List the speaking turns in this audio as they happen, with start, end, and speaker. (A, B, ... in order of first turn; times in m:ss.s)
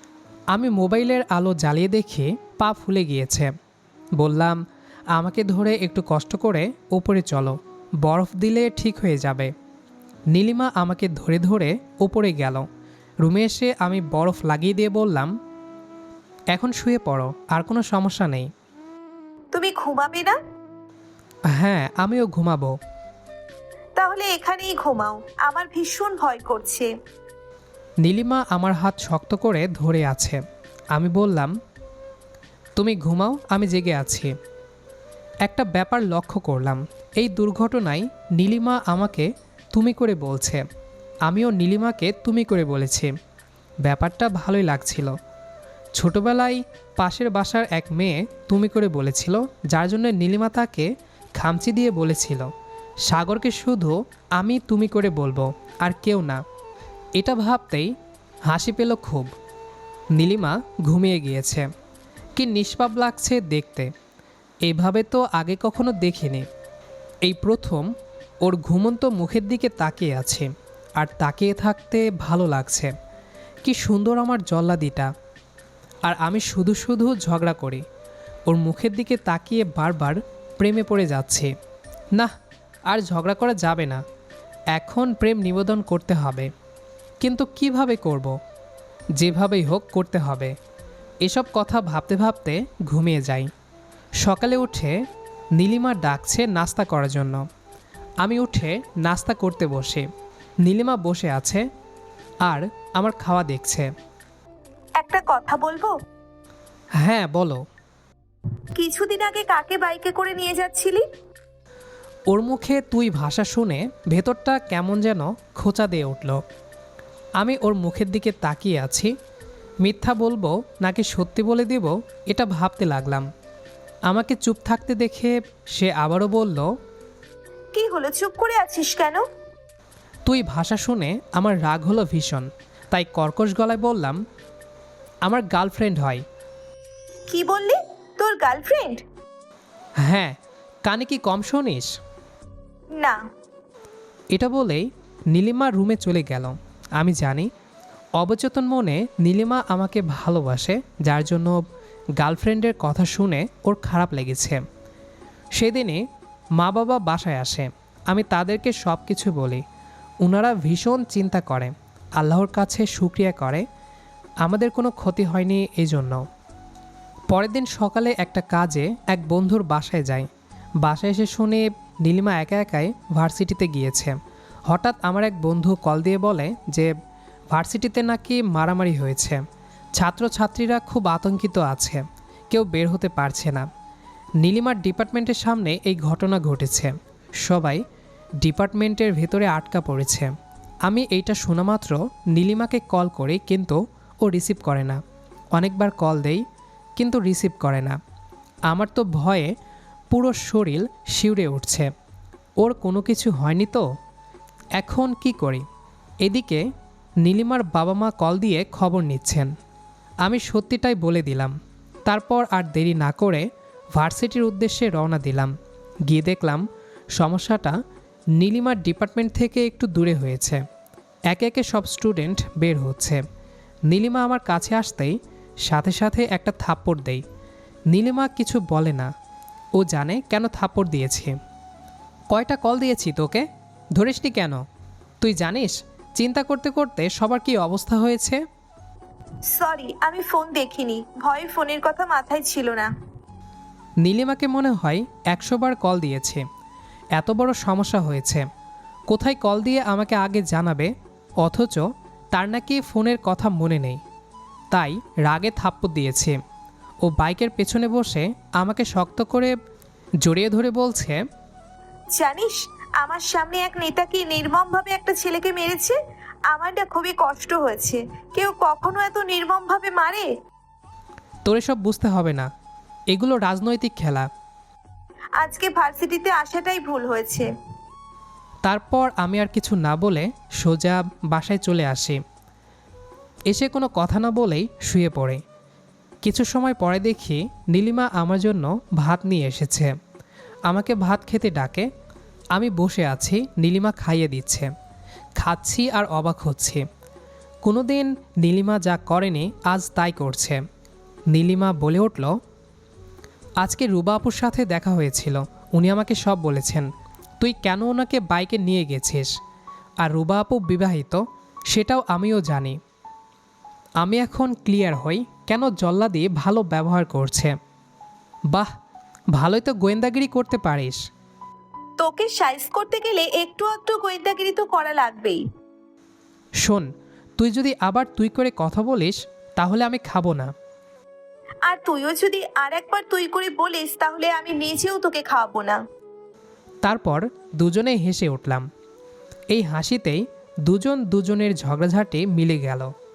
0:00.5-0:03.5 A
0:04.2-0:04.6 A
0:05.1-0:09.5 A
0:10.3-0:12.6 A
0:13.2-0:15.3 A
0:16.5-0:18.5 A
0:19.5-0:20.4 B
0:21.5-0:22.8 A
0:24.0-0:26.9 B
0:28.0-0:30.4 A
0:30.9-0:31.5 A
0:32.8-0:34.3 A
0:35.4-0:40.6 A
0:41.2-0:43.1 A
0:43.8-0:45.2 A
0:46.0-0:52.5 A
0:53.1-0:56.4 A
0:57.2-0:57.9 A
0:58.5-0:59.3 A
1:00.1-1:01.7 A
1:02.4-1:03.9 A
1:04.6-1:06.4 A
1:07.2-1:07.9 A
1:08.4-1:12.9 A
1:13.6-1:15.1 A
1:16.0-1:17.8 A
1:18.5-1:21.5 A
1:22.9-1:24.0 A
1:24.7-1:26.5 A
1:27.2-1:28.4 A
1:29.2-1:30.5 A
1:31.2-1:33.5 A
1:34.2-1:35.0 A
1:35.6-1:37.4 A
1:38.2-1:40.0 A
1:40.6-1:41.7 A
1:42.4-1:43.9 A
1:45.0-1:45.9 B
1:47.0-1:47.6 A
1:48.8-1:51.0 B
1:52.3-1:56.4 A
1:57.4-1:59.1 A
1:59.8-2:03.3 A
2:04.1-2:06.7 A
2:07.7-2:09.2 B
2:10.2-2:14.2 A
2:15.2-2:16.2 A
2:17.3-2:19.0 B
2:20.0-2:21.9 A
2:24.3-2:27.5 A
2:28.2-2:31.6 A
2:32.2-2:34.6 A
2:35.6-2:36.0 A
2:36.6-2:39.6 A
2:40.2-2:43.6 A
2:44.4-2:46.2 A
2:47.3-2:50.3 A
2:50.8-2:54.2 A
2:54.7-2:56.9 A
2:57.5-2:59.4 A
3:00.0-3:03.7 A
3:04.4-3:07.8 A
3:08.4-3:10.3 A
3:10.8-3:15.0 A
3:15.5-3:16.4 A
3:17.0-3:18.0 A
3:18.7-3:19.5 A
3:20.1-3:21.9 A
3:22.6-3:23.8 A
3:24.8-3:25.6 A
3:26.2-3:26.6 A
3:27.2-3:29.5 A
3:30.2-3:31.5 A
3:32.0-3:35.5 A
3:36.1-3:36.6 A
3:37.2-3:37.8 A
3:38.4-3:40.6 A
3:41.3-3:43.2 A
3:43.9-3:47.2 A
3:47.9-3:49.1 A
3:49.7-3:51.4 A
3:52.3-3:54.6 A
3:55.2-3:58.4 A
3:59.5-4:02.9 B
4:04.0-4:06.4 A
4:07.2-4:08.4 A
4:09.1-4:14.0 A
4:14.7-4:16.4 A
4:17.0-4:19.5 A
4:20.2-4:21.2 A
4:22.1-4:30.3 B
4:31.4-4:32.5 A
4:33.1-4:34.3 A
4:35.4-4:37.5 B
4:38.6-4:42.2 A
4:43.5-4:45.4 A
4:46.2-4:49.9 A
4:50.7-4:51.9 A
4:52.5-4:54.7 A
4:55.4-4:56.8 A
4:57.6-5:00.6 A
5:01.3-5:02.3 A
5:03.6-5:06.9 A
5:07.4-5:09.3 A
5:10.0-5:12.8 A
5:14.0-5:17.5 A
5:19.3-5:21.0 A
5:22.0-5:25.4 B
5:26.6-5:30.5 A
5:31.6-5:35.8 B
5:36.8-5:38.7 A
5:39.5-5:42.9 A